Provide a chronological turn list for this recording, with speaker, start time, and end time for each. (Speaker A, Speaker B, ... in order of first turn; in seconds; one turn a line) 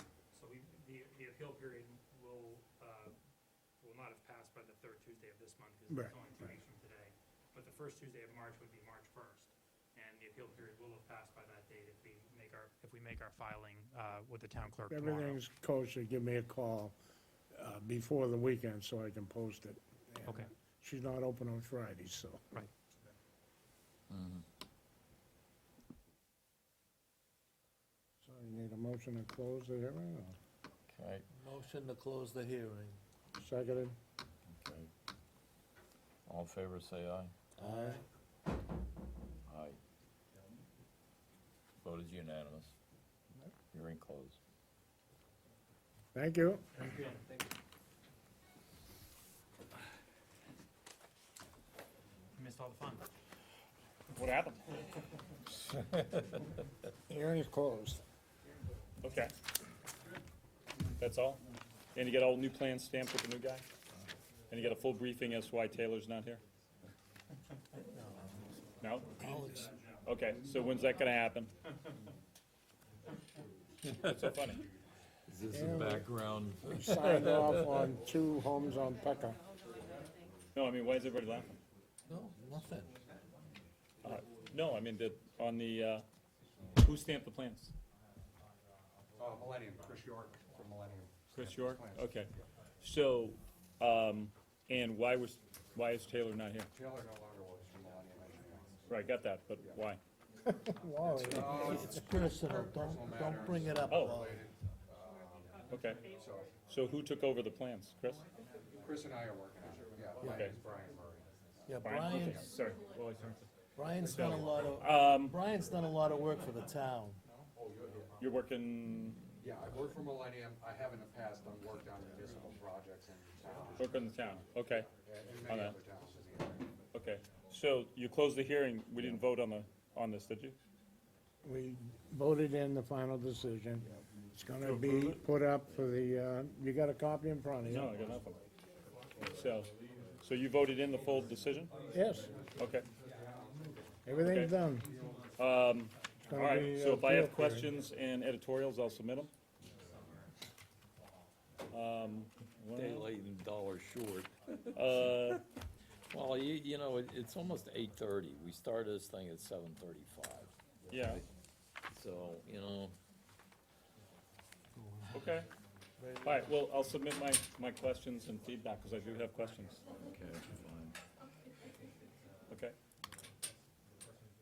Speaker A: 0.3-3.2
Speaker A: 3.8-15.4
Speaker B: 5.9-6.5
Speaker B: 14.9-17.0
Speaker B: 17.5-22.4
Speaker A: 20.2-20.5
Speaker C: 24.1-24.4
Speaker B: 28.2-30.4
Speaker C: 30.9-31.2
Speaker D: 31.3-33.0
Speaker B: 33.4-34.0
Speaker C: 34.5-34.9
Speaker C: 36.2-37.3
Speaker D: 37.6-38.0
Speaker B: 37.6-38.0
Speaker C: 39.5-39.8
Speaker C: 41.8-42.7
Speaker C: 43.7-44.4
Speaker B: 46.1-46.6
Speaker A: 46.8-47.2
Speaker A: 52.3-53.0
Speaker E: 54.1-54.6
Speaker B: 57.1-58.0
Speaker E: 59.0-59.3
Speaker E: 61.0-61.4
Speaker E: 61.9-63.6
Speaker E: 64.5-66.4
Speaker E: 68.8-69.2
Speaker D: 69.2-69.8
Speaker E: 70.0-71.5
Speaker E: 74.0-74.7
Speaker C: 75.3-77.6
Speaker B: 75.5-76.0
Speaker B: 76.7-79.4
Speaker E: 80.5-81.6
Speaker D: 82.1-82.9
Speaker E: 84.0-86.0
Speaker E: 86.8-87.7
Speaker F: 89.2-92.1
Speaker E: 91.3-96.7
Speaker F: 96.7-98.8
Speaker E: 98.9-100.0
Speaker B: 100.5-102.1
Speaker D: 101.1-104.4
Speaker F: 101.3-105.5
Speaker E: 103.9-104.2
Speaker E: 105.7-106.0
Speaker F: 106.1-106.5
Speaker E: 106.7-108.2
Speaker F: 108.8-111.2
Speaker E: 110.2-110.5
Speaker D: 111.7-112.5
Speaker E: 111.8-113.5
Speaker D: 113.8-117.2
Speaker E: 114.0-115.3
Speaker F: 117.6-118.0
Speaker E: 118.2-119.2
Speaker F: 119.4-123.8
Speaker E: 123.8-124.9
Speaker F: 125.1-126.7
Speaker E: 125.5-125.8
Speaker E: 126.9-130.6
Speaker B: 131.4-138.0
Speaker E: 134.6-135.2
Speaker E: 137.7-138.4
Speaker E: 139.2-141.7
Speaker B: 141.9-142.3
Speaker E: 142.6-142.9
Speaker B: 144.1-144.9
Speaker E: 144.2-144.5
Speaker E: 145.3-149.3
Speaker B: 146.2-147.7
Speaker E: 151.7-153.1
Speaker C: 152.7-155.4
Speaker E: 154.7-155.4
Speaker C: 156.1-161.2
Speaker E: 160.9-161.2
Speaker C: 161.9-163.0
Speaker D: 164.8-165.3
Speaker E: 165.1-165.5
Speaker D: 166.0-166.5
Speaker E: 166.2-169.8
Speaker C: 170.0-170.9
Speaker E: 172.5-172.7